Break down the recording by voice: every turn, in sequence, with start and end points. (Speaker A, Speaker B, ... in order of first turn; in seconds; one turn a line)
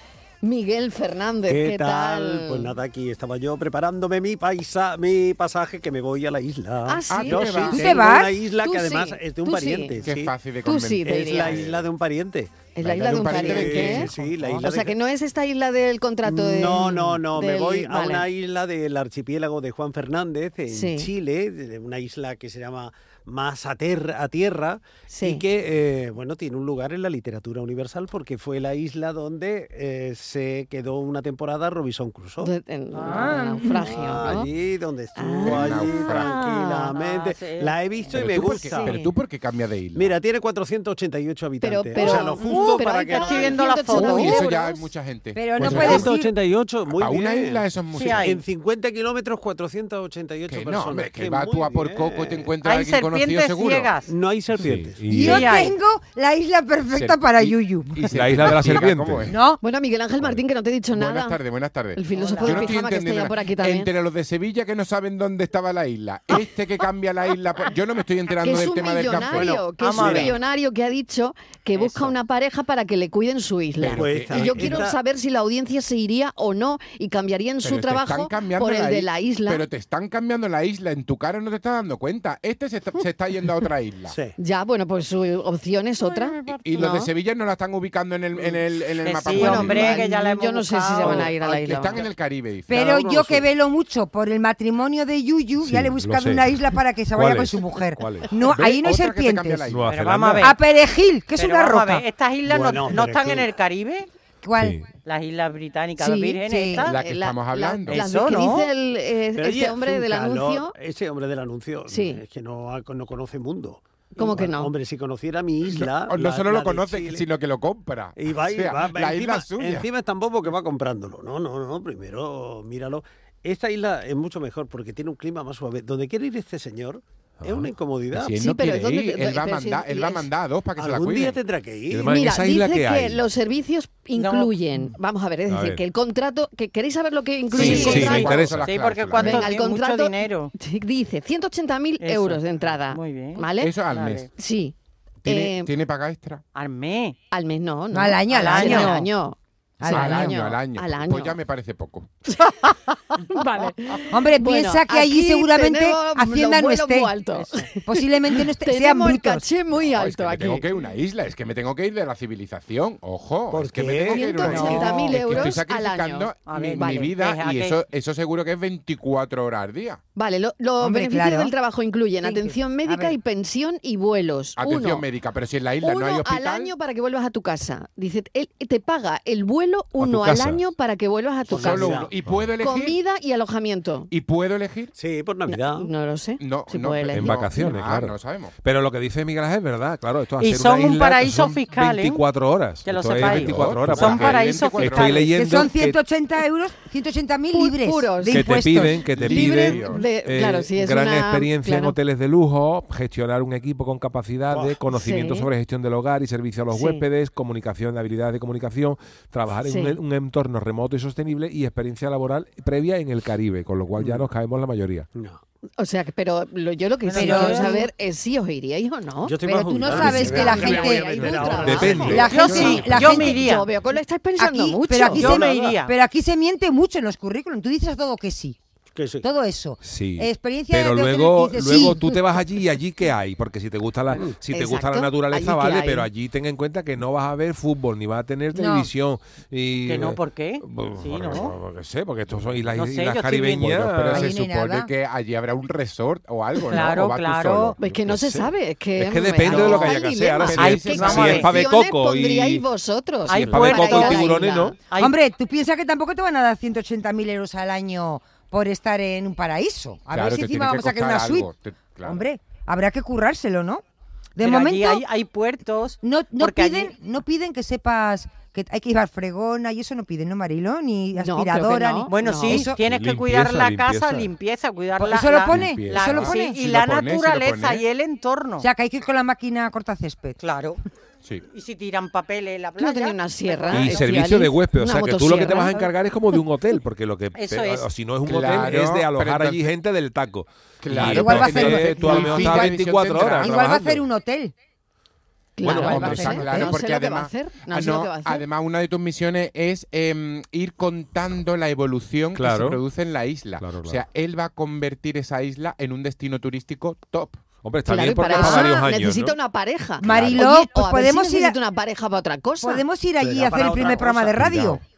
Speaker A: 0.4-2.7
Speaker B: 1.5-10.3
Speaker A: 6.8-7.6
Speaker C: 7.1-8.0
Speaker D: 7.7-8.4
Speaker A: 8.6-10.0
Speaker C: 10.0-11.9
Speaker A: 10.6-11.6
Speaker B: 11.0-14.9
Speaker A: 12.7-18.2
Speaker C: 12.8-14.4
Speaker B: 16.2-32.5
Speaker A: 20.7-21.1
Speaker A: 25.1-25.4
Speaker A: 32.4-34.5
Speaker E: 32.9-33.3
Speaker D: 33.0-33.9
Speaker B: 33.8-39.0
Speaker A: 35.1-36.9
Speaker C: 35.4-36.3
Speaker E: 36.9-37.8
Speaker C: 38.1-40.2
Speaker A: 38.6-39.1
Speaker B: 39.9-43.6
Speaker A: 41.6-44.8
Speaker E: 42.0-44.4
Speaker C: 43.9-46.1
Speaker D: 45.3-46.3
Speaker B: 45.6-47.6
Speaker C: 46.9-48.3
Speaker E: 47.9-48.4
Speaker B: 48.2-52.5
Speaker C: 50.5-53.9
Speaker E: 52.6-54.1
Speaker B: 54.1-55.0
Speaker F: 54.5-55.4
Speaker D: 55.1-58.1
Speaker E: 55.2-55.7
Speaker C: 56.9-59.4
Speaker F: 58.1-59.3
Speaker D: 59.3-59.6
Speaker A: 59.6-61.4
Speaker C: 60.9-69.6
Speaker A: 61.9-63.9
Speaker E: 62.1-62.7
Speaker A: 68.4-79.6
Speaker B: 69.1-70.4
Speaker E: 69.8-70.4
Speaker C: 73.8-74.9
Speaker B: 73.9-75.0
Speaker C: 77.6-84.2
Speaker B: 84.1-84.3
Speaker A: 84.4-87.1
Speaker E: 86.0-87.0
Speaker C: 86.6-90.1
Speaker E: 89.0-91.3
Speaker A: 89.3-92.0
Speaker C: 91.0-93.4
Speaker D: 92.7-99.7
Speaker F: 95.6-98.3
Speaker C: 98.5-99.9
Speaker F: 99.7-100.5
Speaker E: 99.9-100.6
Speaker D: 100.4-102.0
Speaker E: 101.3-104.1
Speaker B: 102.5-103.5
Speaker D: 104.4-104.8
Speaker F: 104.6-104.9
Speaker E: 105.0-107.0
Speaker D: 106.0-106.8
Speaker C: 106.8-108.0
Speaker A: 106.8-110.7
Speaker E: 107.9-108.7
Speaker B: 109.3-117.2
Speaker A: 111.9-112.2
Speaker A: 114.2-114.7
Speaker C: 115.7-119.9
Speaker B: 118.2-128.3
Speaker F: 127.4-127.7
Speaker C: 128.1-131.4
Speaker A: 128.3-130.3
Speaker B: 130.8-132.1
Speaker F: 131.9-133.2
Speaker A: 132.1-138.3
Speaker E: 134.2-134.5
Speaker F: 135.5-135.8
Speaker C: 137.5-139.5
Speaker F: 137.6-138.8
Speaker E: 137.6-140.5
Speaker A: 139.2-143.7
Speaker E: 142.0-144.3
Speaker C: 143.6-144.3
Speaker A: 144.4-144.7
Speaker C: 145.2-146.4
Speaker A: 145.2-145.7
Speaker E: 146.5-147.2
Speaker A: 147.3-151.3
Speaker D: 147.9-149.0
Speaker E: 148.3-149.1
Speaker D: 149.8-150.3
Speaker C: 149.9-152.1
Speaker A: 152.3-152.6
Speaker A: 153.3-160.7
Speaker D: 154.1-157.2
Speaker D: 157.8-159.4
Speaker C: 159.9-170.0
Speaker B: 163.5-164.8
Speaker A: 164.1-167.1
Speaker D: 164.5-165.1
Speaker E: 166.5-167.8
Speaker A: 170.2-175.0
Speaker D: 170.8-171.5
Speaker D: 172.2-173.2
Speaker C: 174.6-176.7
Speaker A: 175.8-182.1
Speaker F: 180.0-180.7
Speaker B: 181.5-182.1
Speaker C: 181.5-183.0
Speaker A: 182.6-184.1
Speaker C: 184.1-184.9
Speaker B: 184.9-185.9
Speaker A: 185.5-187.3
Speaker C: 186.4-188.5
Speaker F: 187.1-196.0
Speaker E: 190.4-192.2
Speaker E: 192.8-195.3
Speaker C: 193.2-195.2
Speaker D: 195.3-199.1
Speaker A: 197.5-201.9
Speaker F: 198.3-215.1
Speaker C: 199.1-200.0
Speaker B: 204.5-204.8
Speaker A: 204.9-205.5
Speaker A: 206.7-207.0
Speaker A: 209.7-209.9
Speaker B: 214.0-214.2
Speaker B: 215.1-215.4
Speaker A: 215.8-222.6
Speaker E: 217.1-217.8
Speaker D: 217.2-217.9
Speaker B: 219.2-222.2
Speaker D: 219.5-223.6
Speaker F: 221.6-223.3
Speaker C: 221.9-223.1
Speaker E: 222.0-223.7
Speaker A: 223.3-225.2
Speaker D: 224.4-228.6
Speaker E: 225.1-225.9
Speaker B: 225.2-225.7
Speaker B: 228.9-229.3
Speaker D: 229.2-232.2
Speaker F: 229.8-244.3
Speaker A: 234.5-236.1
Speaker D: 238.5-238.9
Speaker E: 239.8-241.5
Speaker E: 242.7-243.8
Speaker C: 243.7-247.8
Speaker D: 244.1-244.9
Speaker E: 246.7-247.7
Speaker A: 247.8-254.8
Speaker F: 247.8-252.6
Speaker C: 249.4-251.4
Speaker E: 250.6-251.6
Speaker E: 253.3-254.3
Speaker F: 253.3-254.8
Speaker E: 254.9-255.2
Speaker D: 254.9-261.5
Speaker C: 260.1-262.2
Speaker D: 262.0-263.8
Speaker D: 264.4-265.0
Speaker E: 264.4-266.9
Speaker D: 266.0-272.8
Speaker A: 271.1-272.5
Speaker E: 272.1-278.7
Speaker F: 272.8-274.3
Speaker D: 275.0-276.6
Speaker C: 275.5-277.8
Speaker D: 278.6-280.4
Speaker E: 280.4-280.8
Speaker E: 281.5-284.2
Speaker A: 282.8-285.9
Speaker F: 283.7-294.0
Speaker E: 287.3-287.9
Speaker C: 288.2-289.7
Speaker C: 290.8-293.5
Speaker D: 290.9-292.7
Speaker D: 293.3-294.5
Speaker A: 295.6-298.4
Speaker F: 295.6-296.4
Speaker D: 295.7-296.7
Speaker C: 295.7-307.4
Speaker F: 302.3-302.8
Speaker F: 303.6-304.0
Speaker F: 307.6-309.4
Speaker A: 307.9-312.8
Speaker D: 308.3-308.7
Speaker D: 310.0-311.6
Speaker F: 310.1-310.4
Speaker D: 312.6-314.8
Speaker B: 313.2-314.6
Speaker C: 314.4-314.7